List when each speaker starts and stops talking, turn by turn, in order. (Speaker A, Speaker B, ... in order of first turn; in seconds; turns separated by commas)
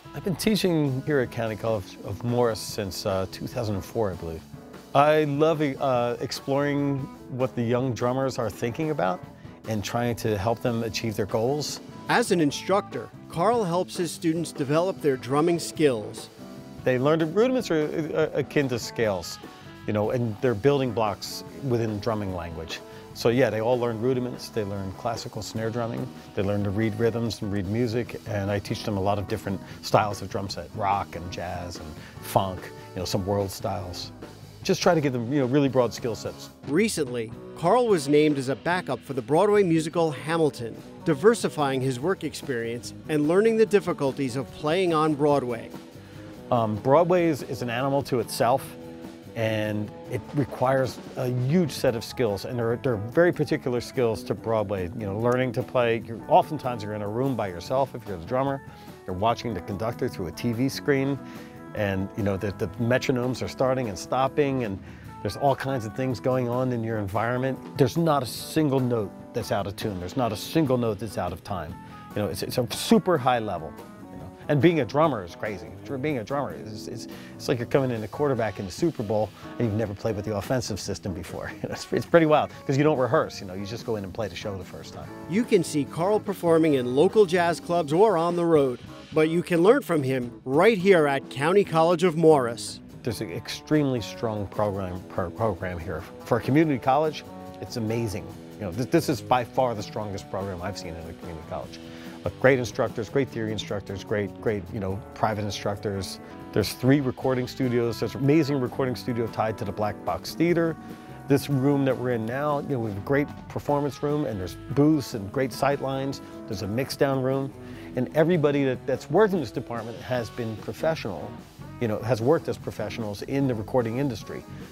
Speaker A: 0.1-11.8, Speaker B: 12.1-16.3, Speaker A: 16.8-36.5, Speaker B: 36.6-45.7, Speaker A: 46.5-48.8, Speaker A: 49.3-61.2, Speaker A: 61.7-85.1, Speaker B: 85.3-92.8, Speaker A: 93.0-124.5